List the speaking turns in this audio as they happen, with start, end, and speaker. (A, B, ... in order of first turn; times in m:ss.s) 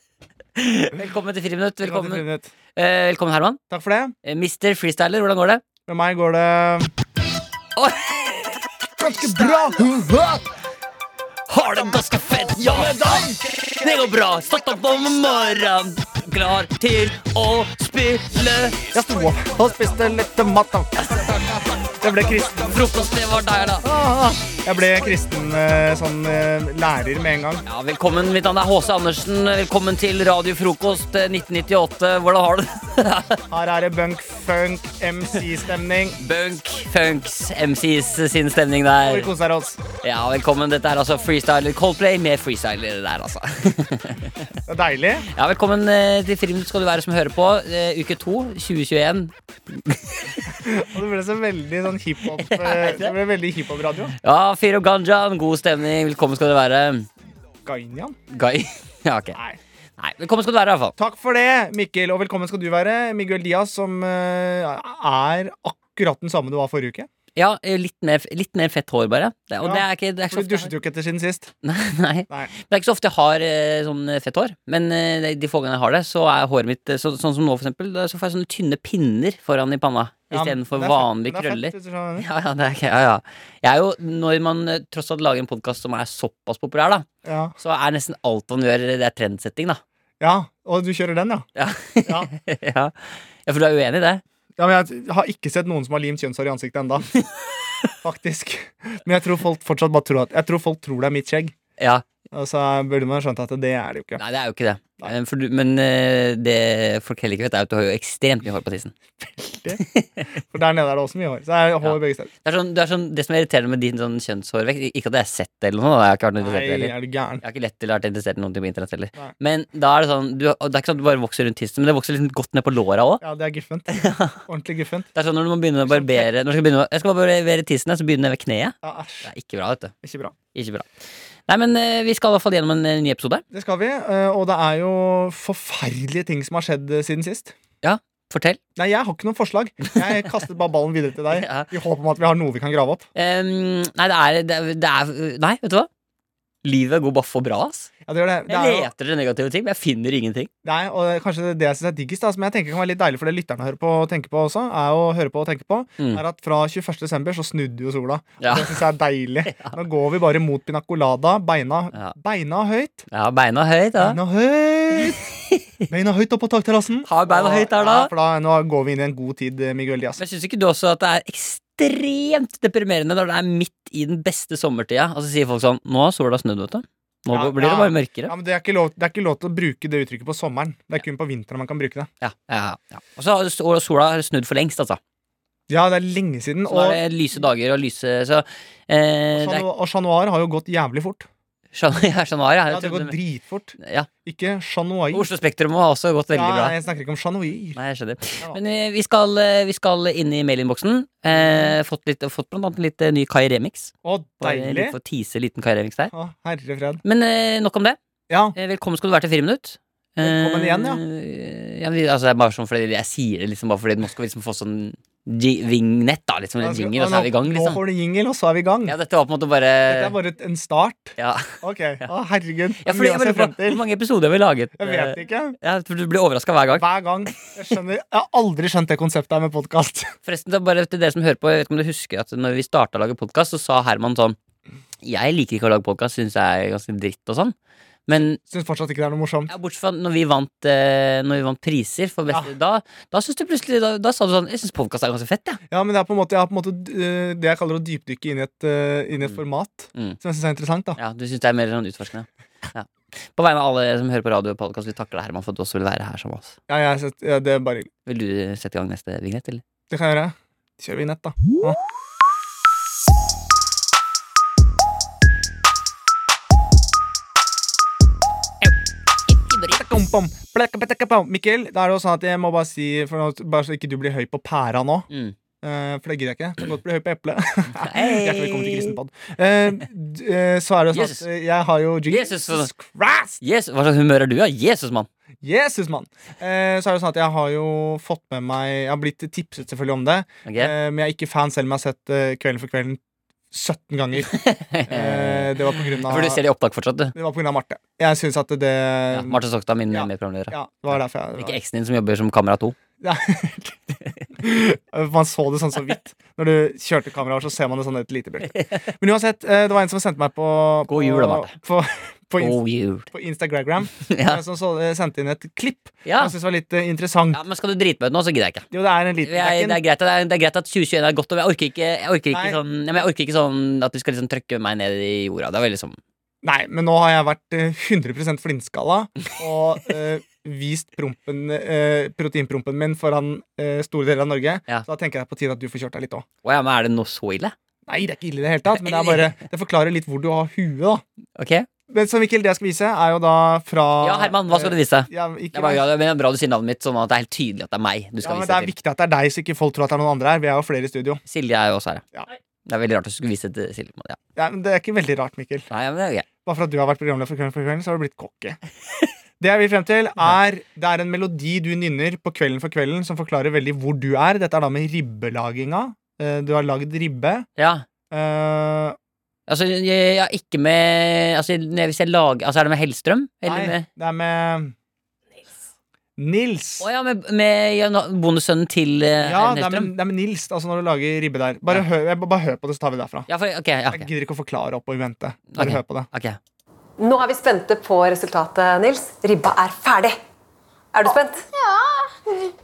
0:00.6-0:03.6 A
0:01.8-0:02.5 B
0:03.7-0:04.2 B
0:04.2-0:05.6 A
0:05.9-0:06.9 B
0:07.8-0:08.5 A
0:09.0-0:10.4 B
0:11.5-0:18.8 A
0:12.3-0:13.4 B
0:18.9-0:22.9 B
0:21.0-0:21.3 A
0:22.6-0:23.9 A
0:23.8-0:27.6 B
0:27.7-0:33.4 A
0:33.5-0:36.2 B
0:36.2-0:39.3 A
0:39.0-0:39.8 B
0:40.0-0:44.5 A
0:44.7-0:45.3 B
0:45.3-0:50.6 A
0:50.5-0:54.2 B
0:52.4-0:53.2 A
0:54.2-0:57.1 A
0:57.6-0:58.2 B
0:58.3-0:59.4 A
0:59.3-0:59.6 B
1:00.0-1:01.0 A
1:01.0-1:07.1 B
1:07.4-1:10.7 A
1:09.6-1:11.5 B
1:11.6-1:27.1 A
1:20.3-1:22.3 B
1:27.2-1:27.6 B
1:27.6-1:29.8 A
1:30.2-1:31.5 B
1:31.6-1:32.9 A
1:32.0-1:32.3 B
1:33.4-1:34.2 A
1:34.6-1:37.1 B
1:38.0-1:41.6 B
1:41.8-1:42.0 A
1:42.3-1:44.2 B
1:44.2-1:48.9 A
1:49.2-1:49.8 B
1:49.8-1:50.3 A
1:50.5-1:52.3 B
1:51.8-2:03.2 A
1:56.4-1:57.4 B
2:03.2-2:05.1 B
2:03.9-2:04.4 A
2:05.1-2:09.9 A
2:05.9-2:06.3 B
2:08.8-2:09.3 B
2:10.0-2:10.4 B
2:10.5-2:10.9 A
2:11.5-2:13.4 A
2:13.5-2:17.6 B
2:17.8-2:18.6 A
2:18.8-2:23.1 B
2:21.3-2:21.7 A
2:23.2-2:25.9 A
2:26.6-2:27.9 A
2:28.0-2:28.9 B
2:28.5-2:30.5 A
2:30.6-2:43.1 B
2:38.4-2:38.8 A
2:39.5-2:39.8 A
2:43.1-2:44.2 A
2:44.0-2:45.2 B
2:45.9-2:50.2 B
2:47.0-2:48.1 A
2:50.2-2:58.3 A
2:57.3-3:02.1 B
3:02.2-3:05.0 A
3:05.7-3:07.0 B
3:06.7-3:09.7 A
3:09.3-3:11.3 B
3:11.7-3:13.2 A
3:12.7-3:15.3 B
3:13.8-3:14.1 A
3:15.1-3:16.8 A
3:16.3-3:17.8 B
3:17.8-3:26.1 A
3:21.3-3:21.8 B
3:24.0-3:25.0 B
3:26.1-3:27.0 B
3:27.0-3:28.0 A
3:28.3-3:28.6 B
3:28.5-3:37.8 A
3:30.2-3:31.0 B
3:36.6-3:39.0 B
3:38.9-3:40.2 A
3:39.9-3:43.8 B
3:41.2-3:42.1 A
3:42.8-3:46.9 A
3:44.8-3:45.6 B
3:46.7-3:50.1 B
3:50.3-3:54.4 A
3:55.0-3:57.5 A
3:58.1-3:58.4 A
3:58.2-3:59.5 B
3:59.5-4:05.6 A
4:05.7-4:11.0 B
4:11.0-4:16.6 A
4:16.7-4:17.9 B
4:18.1-4:19.6 A
4:19.9-4:21.8 B
4:29.3-4:29.8 A
4:29.7-4:35.1 B
4:35.1-4:35.4 A
4:35.6-4:43.4 B
4:37.8-4:39.0 A
4:40.9-4:41.3 A
4:42.1-4:42.7 A
4:43.4-4:45.1 A
4:45.4-4:53.0 B
4:50.4-4:50.7 A
4:53.5-4:54.3 B
4:54.2-4:57.1 A
4:54.9-4:56.4 B
4:57.2-4:59.4 B
4:59.1-5:02.8 A
4:59.9-5:01.6 B
5:03.0-5:12.6 B
5:08.5-5:08.9 A
5:10.9-5:11.5 A
5:12.4-5:13.1 A
5:13.1-5:17.4 B
5:14.0-5:14.4 A
5:16.0-5:16.4 A
5:17.3-5:18.7 A
5:18.7-5:19.8 B
5:19.2-5:26.0 A
5:22.3-5:22.6 B
5:26.4-5:36.3 B
5:36.4-5:37.5 A
5:37.9-5:41.0 B
5:38.7-5:39.4 A
5:41.4-5:41.7 A
5:41.9-5:45.9 B
5:44.0-5:48.7 A
5:48.2-5:51.2 B
5:51.3-5:52.0 A
5:52.7-5:54.2 A
5:54.4-5:55.7 B
5:55.7-5:56.3 A
5:56.4-5:58.6 B
5:59.4-6:07.5 B
6:07.6-6:07.8 A
6:08.1-6:09.0 B
6:09.5-6:13.9 A
6:13.4-6:14.7 B
6:16.2-6:16.9 B
6:16.8-6:19.9 A
6:19.2-6:23.3 B
6:23.3-6:24.1 A
6:23.9-6:26.1 B
6:25.5-6:26.4 A
6:27.0-6:30.1 C
6:30.9-6:32.5 C